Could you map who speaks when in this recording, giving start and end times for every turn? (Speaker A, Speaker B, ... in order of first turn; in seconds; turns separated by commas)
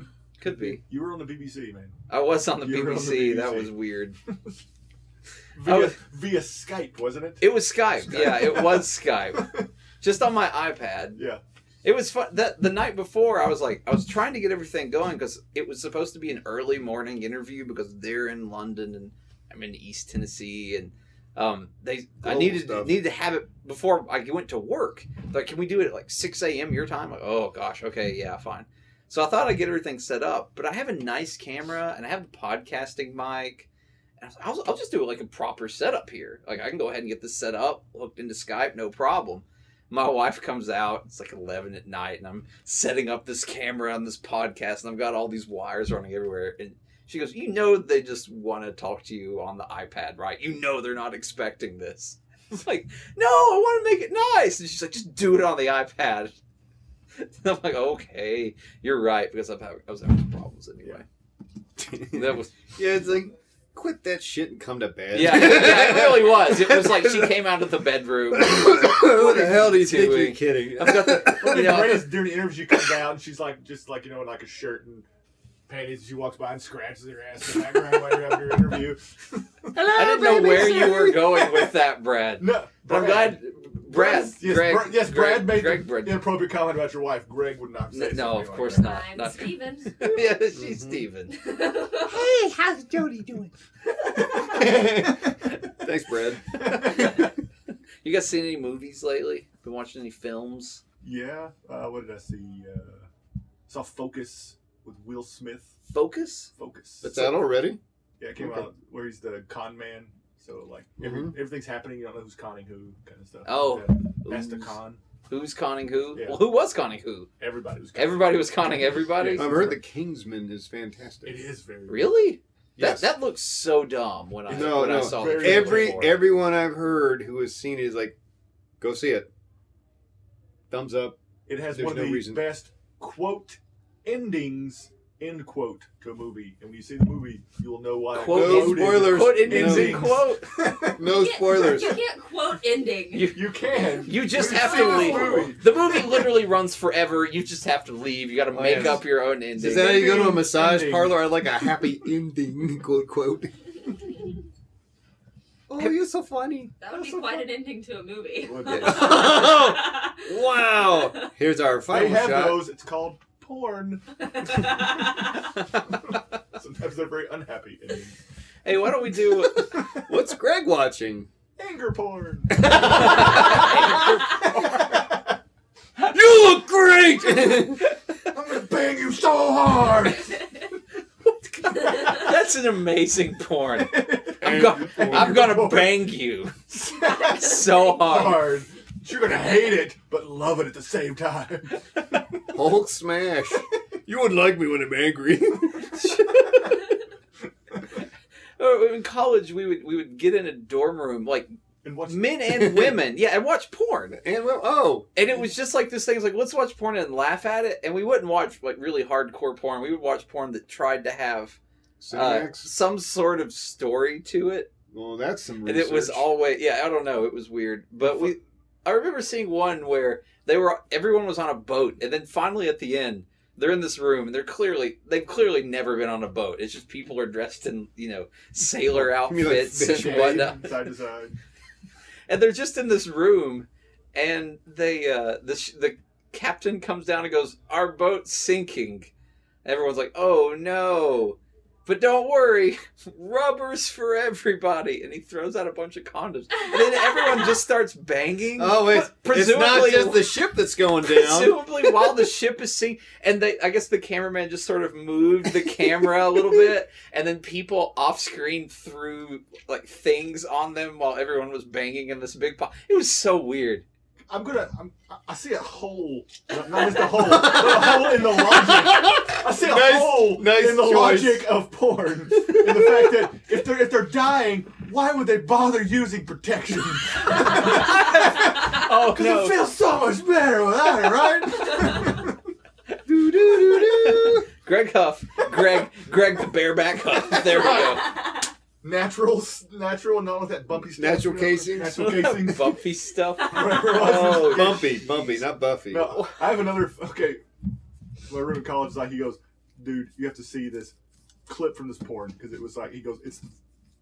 Speaker A: 0.4-0.8, Speaker B: 0.6-1.9, Speaker A: 2.1-4.2, Speaker B: 2.6-3.7, Speaker B: 5.5-7.5, Speaker A: 5.6-6.0, Speaker A: 7.4-11.2, Speaker B: 8.0-9.7, Speaker B: 11.2-11.4, Speaker A: 11.8-33.7, Speaker C: 22.2-22.9, Speaker A: 34.2-56.3, Speaker A: 57.2-61.0, Speaker C: 61.8-67.4, Speaker A: 62.1-62.5, Speaker A: 65.1-72.1, Speaker C: 68.3-72.0, Speaker B: 71.4-75.0, Speaker B: 75.7-79.7, Speaker C: 79.7-81.7, Speaker A: 79.9-86.2, Speaker B: 82.4-83.4, Speaker B: 83.9-88.9, Speaker A: 87.9-91.4, Speaker D: 88.7-90.0, Speaker C: 90.1-91.0, Speaker D: 91.3-92.2, Speaker C: 92.0-93.5, Speaker C: 94.0-97.3, Speaker B: 94.1-95.7, Speaker B: 96.5-97.3, Speaker A: 98.0-100.8, Speaker B: 101.0-103.1, Speaker B: 103.7-105.8, Speaker A: 105.9-106.5, Speaker B: 106.5-107.4, Speaker C: 107.0-107.8, Speaker B: 108.2-115.0, Speaker C: 108.4-108.6, Speaker C: 111.0-111.3, Speaker A: 113.4-114.7, Speaker A: 115.3-117.3, Speaker B: 116.1-116.4, Speaker B: 117.4-118.3, Speaker A: 117.9-119.7, Speaker B: 119.1-119.8, Speaker C: 119.3-121.4, Speaker B: 121.2-122.1, Speaker A: 121.9-126.2, Speaker C: 122.8-123.1, Speaker C: 124.5-128.2, Speaker B: 124.7-126.1, Speaker C: 128.8-129.3, Speaker C: 130.7-132.5, Speaker B: 131.5-141.6, Speaker A: 138.1-140.5, Speaker C: 138.3-140.2, Speaker C: 140.8-142.0, Speaker D: 141.0-143.3, Speaker A: 143.1-143.4, Speaker B: 143.3-145.7, Speaker A: 144.0-150.0, Speaker D: 144.4-145.5, Speaker C: 148.5-153.5, Speaker B: 149.6-151.2, Speaker C: 155.7-156.7, Speaker D: 156.8-161.3, Speaker B: 156.9-157.4, Speaker B: 158.4-159.4, Speaker C: 158.7-162.7, Speaker B: 161.9-165.0, Speaker D: 164.5-165.0, Speaker B: 165.9-168.2, Speaker A: 168.6-169.6, Speaker C: 169.4-171.3, Speaker B: 169.6-170.1, Speaker B: 171.6-175.2, Speaker C: 172.6-174.7, Speaker A: 172.7-174.2, Speaker C: 176.0-177.9, Speaker B: 178.2-180.6, Speaker B: 181.6-182.2, Speaker A: 181.8-186.5, Speaker B: 183.8-186.1, Speaker C: 184.4-185.6, Speaker B: 186.7-192.2, Speaker A: 187.1-188.5, Speaker C: 192.5-196.3, Speaker A: 198.6-201.5, Speaker B: 201.8-202.3, Speaker A: 202.1-204.2, Speaker C: 202.5-203.0, Speaker C: 204.1-205.1, Speaker A: 205.1-211.6, Speaker C: 212.0-212.7, Speaker A: 212.1-214.7, Speaker C: 214.9-216.3, Speaker A: 215.6-230.7, Speaker C: 228.9-230.6, Speaker B: 229.8-231.3, Speaker A: 232.3-239.1, Speaker A: 239.6-250.3, Speaker C: 248.6-252.0, Speaker A: 251.0-263.8, Speaker B: 264.3-282.4, Speaker C: 267.1-271.5, Speaker C: 272.4-273.1, Speaker A: 277.4-279.6, Speaker C: 283.1-284.5, Speaker A: 283.3-288.2, Speaker D: 287.7-288.3, Speaker B: 288.8-292.8, Speaker C: 290.9-292.4, Speaker A: 291.9-294.8, Speaker D: 293.4-294.0, Speaker B: 293.4-297.4, Speaker C: 293.9-296.2, Speaker B: 298.3-300.9, Speaker B: 301.4-303.5